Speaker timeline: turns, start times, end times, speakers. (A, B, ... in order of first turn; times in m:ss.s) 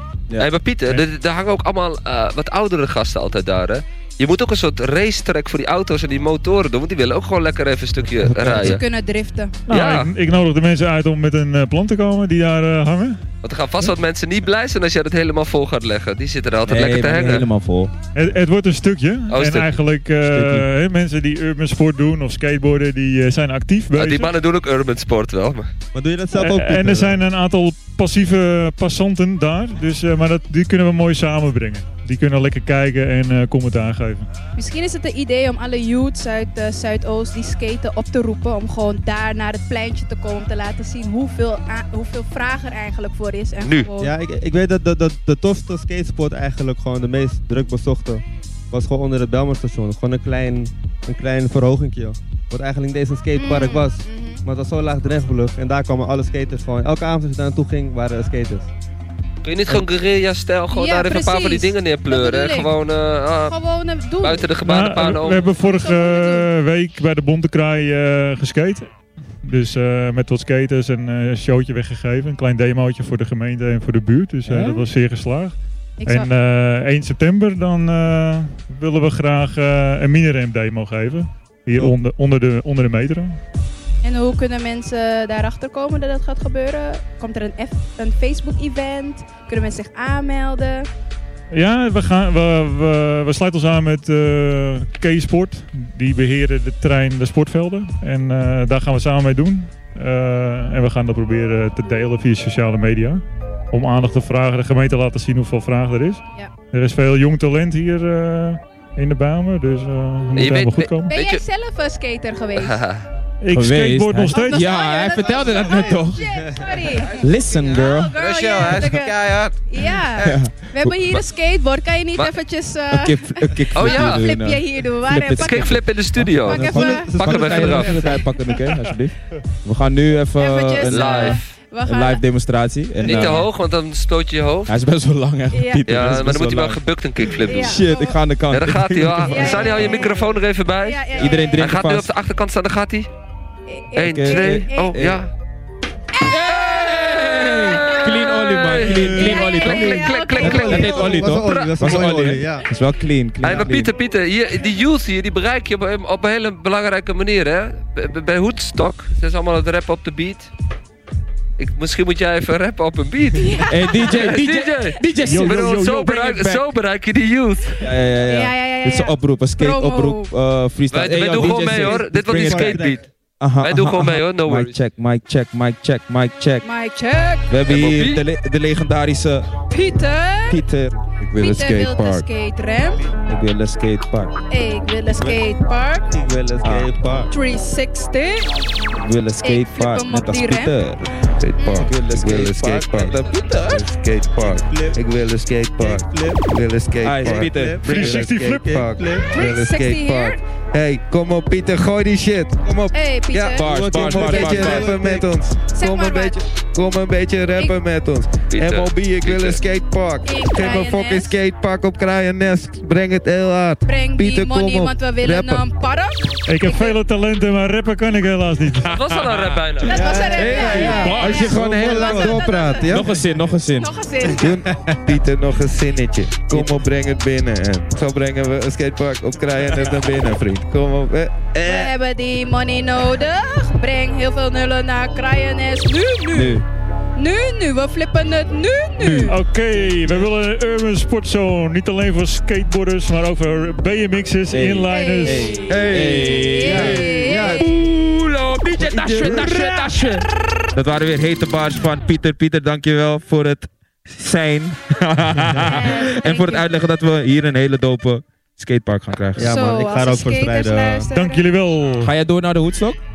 0:00.4-0:08.8 A
0:08.3-0:08.8 B
0:08.6-0:09.5 C
0:09.7-0:13.2 D
0:09.7-0:10.1 A
0:13.4-0:17.5 A
0:16.7-0:17.9 B
0:18.2-0:24.3 D
0:19.3-0:19.8 A
0:20.3-0:20.7 B
0:23.9-0:25.7 A
0:25.9-0:27.2 E
0:26.3-0:34.3 D
0:34.6-0:44.1 C
0:43.6-0:43.9 A
0:44.0-0:58.7 E
0:53.4-0:54.4 C
0:59.4-1:03.6 A
1:00.7-1:02.7 C
1:03.4-1:04.5 C
1:04.2-1:05.5 A
1:04.6-1:08.9 D
1:05.5-1:06.5 C
1:09.4-1:23.4 D
1:14.5-1:14.8 E
1:16.0-1:16.3 C
1:24.0-1:30.9 C
1:31.5-1:51.1 D
1:50.4-1:51.4 A
1:51.1-1:52.8 C
1:52.6-1:53.1 A
1:53.4-1:54.7 D
1:53.5-1:56.3 B
1:54.3-2:05.8 C
1:55.6-1:56.0 E
1:57.2-1:58.2 B
2:00.2-2:01.0 B
2:02.9-2:13.5 B
2:03.8-2:04.3 A
2:05.4-2:08.2 A
2:06.4-2:07.2 C
2:06.7-2:08.3 E
2:10.4-2:12.2 C
2:10.9-2:11.4 A
2:13.0-2:14.7 A
2:13.1-2:13.5 C
2:14.7-2:16.8 B
2:15.5-2:16.2 C
2:15.9-2:17.8 A
2:17.4-2:20.1 B
2:17.4-2:18.2 C
2:18.5-2:23.1 A
2:19.2-2:21.7 C
2:21.2-2:22.1 B
2:23.7-2:25.0 C
2:24.0-2:25.3 A
2:24.0-2:25.2 B
2:26.1-2:31.3 C
2:26.3-2:33.9 B
2:26.9-2:31.8 A
2:28.9-2:29.5 E
2:30.4-2:32.7 E
2:33.4-2:33.9 E
2:33.4-2:40.5 A
2:41.6-2:47.8 A
2:43.4-2:44.2 C
2:43.7-2:46.7 B
2:45.3-2:46.3 D
2:47.8-2:52.9 B
2:48.2-2:50.3 C
2:50.9-2:53.1 A
2:51.2-2:53.1 E
2:53.4-2:56.7 B
2:53.6-2:54.8 A
2:56.6-2:57.5 C
2:57.5-2:59.5 B
2:57.7-2:58.3 A
2:59.7-3:00.6 C
3:00.5-3:01.0 B
3:01.2-3:02.2 F
3:01.4-3:03.1 C
3:03.3-3:04.3 B
3:04.5-3:06.1 C
3:05.2-3:05.4 E
3:06.1-3:07.3 E
3:06.6-3:06.9 B
3:07.3-3:08.5 C
3:09.0-3:11.0 B
3:09.4-3:10.8 C
3:11.2-3:35.6 F
3:11.6-3:11.9 C
3:11.8-3:13.8 B
3:14.4-3:15.0 E
3:15.8-3:16.4 E
3:17.0-3:18.0 B
3:17.3-3:19.4 E
3:17.8-3:18.8 D
3:19.3-3:20.4 C
3:22.9-3:24.8 C
3:23.5-3:24.9 B
3:23.6-3:25.3 E
3:25.7-3:26.4 C
3:28.5-3:29.6 A
3:30.2-3:31.4 C
3:33.8-3:37.0 C
3:36.5-3:39.2 D
3:38.8-3:40.0 A
3:39.8-3:42.9 C
3:39.9-3:43.0 E
3:40.3-3:41.1 F
3:40.6-3:42.1 B
3:40.9-3:41.5 D
3:41.6-3:43.1 F
3:42.9-3:43.9 B
3:43.7-3:44.6 C
3:44.3-3:52.0 F
3:51.6-3:56.6 C
3:56.3-3:56.6 B
3:57.2-3:59.4 C
3:59.0-3:59.3 B
3:59.3-4:05.5 D
4:04.5-4:19.6 B
4:04.9-4:07.7 C
4:05.6-4:07.6 F
4:08.7-4:09.6 F
4:15.6-4:16.7 C
4:19.4-4:21.1 E
4:19.4-4:21.4 C
4:21.2-4:22.1 D
4:22.0-4:23.0 B